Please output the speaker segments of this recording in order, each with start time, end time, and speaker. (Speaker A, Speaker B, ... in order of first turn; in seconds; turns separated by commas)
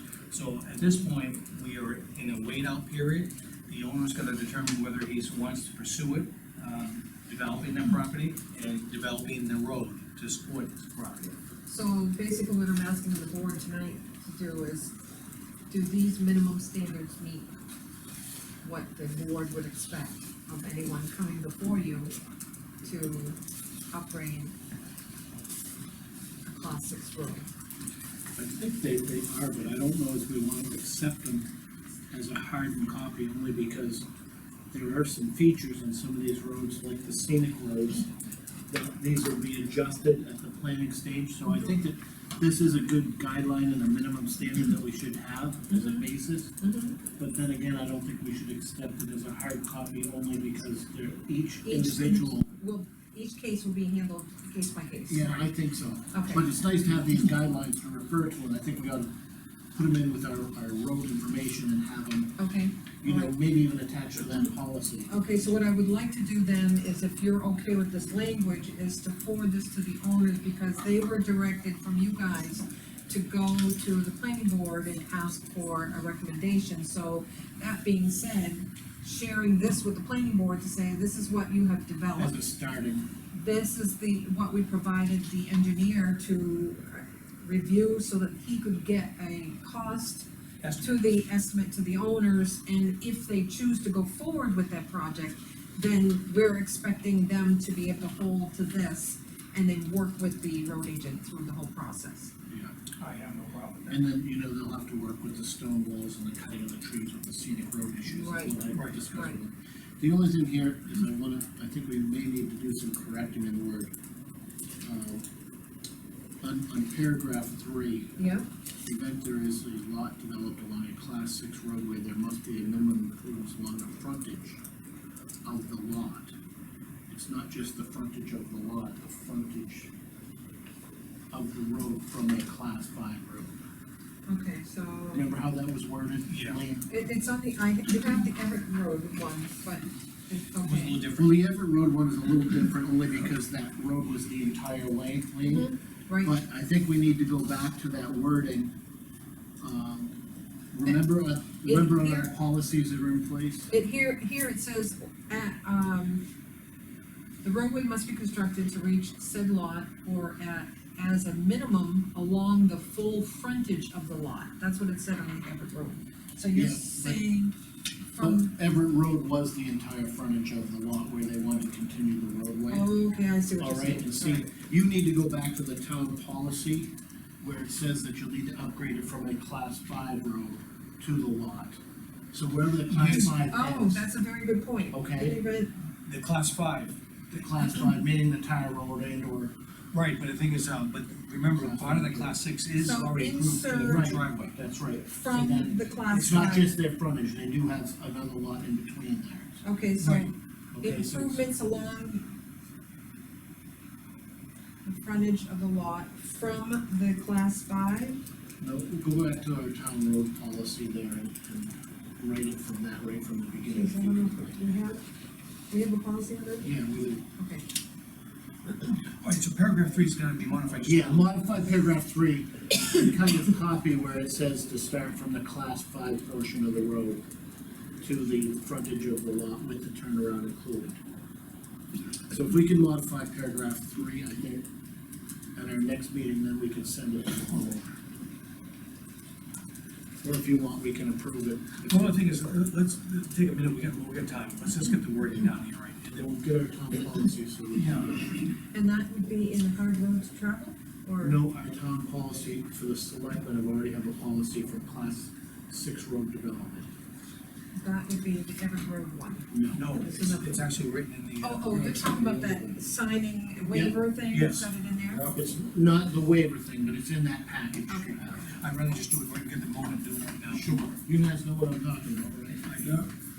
Speaker A: 0.3-11.3, Speaker B: 11.7-14.9, Speaker B: 15.7-17.5, Speaker B: 18.6-22.1, Speaker B: 22.8-23.4, Speaker B: 23.9-24.5, Speaker B: 26.4-27.5, Speaker C: 28.4-31.5, Speaker C: 32.1-34.0, Speaker C: 34.7-38.1, Speaker C: 38.7-52.5, Speaker B: 45.7-46.0, Speaker B: 46.6-47.0, Speaker B: 51.6-55.5, Speaker C: 55.1-59.1, Speaker B: 56.1-56.5, Speaker C: 59.7-62.4, Speaker B: 62.4-63.3, Speaker C: 63.0-65.1, Speaker B: 65.1-82.4, Speaker C: 82.2-83.1, Speaker B: 83.3-90.3, Speaker A: 90.6-91.1, Speaker B: 90.8-102.3, Speaker C: 102.5-102.7, Speaker A: 103.0-104.0, Speaker C: 103.9-113.9, Speaker B: 108.0-109.4, Speaker A: 108.7-109.0, Speaker C: 114.8-115.2, Speaker C: 116.4-118.2, Speaker B: 118.2-118.5, Speaker C: 118.8-124.6, Speaker C: 125.4-126.3, Speaker C: 127.1-129.9, Speaker C: 131.3-133.5, Speaker B: 134.3-135.3, Speaker C: 135.1-136.9, Speaker A: 136.3-136.6, Speaker B: 136.9-141.1, Speaker A: 140.6-141.4, Speaker C: 141.1-145.7, Speaker B: 145.4-146.3, Speaker C: 146.2-148.7, Speaker C: 149.6-150.2, Speaker C: 150.7-153.7, Speaker B: 151.6-152.3, Speaker B: 153.7-156.2, Speaker B: 157.4-167.5, Speaker C: 166.5-167.2, Speaker B: 168.1-168.5, Speaker C: 168.2-172.9, Speaker B: 172.7-174.5, Speaker C: 173.6-181.8, Speaker C: 182.3-184.0, Speaker A: 182.9-183.3, Speaker B: 183.0-185.7, Speaker C: 184.9-185.4, Speaker A: 186.0-187.0, Speaker C: 187.3-189.5, Speaker A: 189.9-194.6, Speaker C: 191.6-192.4, Speaker B: 192.8-194.2, Speaker C: 193.8-201.4, Speaker B: 195.2-196.7, Speaker B: 199.6-202.3, Speaker B: 204.8-208.2, Speaker C: 208.6-214.6, Speaker B: 213.7-215.0, Speaker B: 215.7-216.7, Speaker C: 216.6-217.2, Speaker B: 217.4-217.7, Speaker A: 219.0-221.3, Speaker C: 220.8-227.2, Speaker C: 228.0-231.0, Speaker C: 232.3-234.6, Speaker C: 235.5-237.9, Speaker C: 240.2-242.5, Speaker A: 241.9-246.3, Speaker C: 246.1-248.3, Speaker A: 247.7-248.5, Speaker B: 248.7-251.4, Speaker C: 251.2-256.9, Speaker B: 257.7-260.6, Speaker C: 259.5-259.9, Speaker A: 259.7-262.2, Speaker B: 261.4-265.3, Speaker C: 261.7-262.7, Speaker C: 263.7-264.0, Speaker A: 264.3-265.5, Speaker C: 265.3-268.6, Speaker B: 267.9-268.4, Speaker A: 268.5-270.9, Speaker C: 270.5-273.1, Speaker A: 272.6-273.1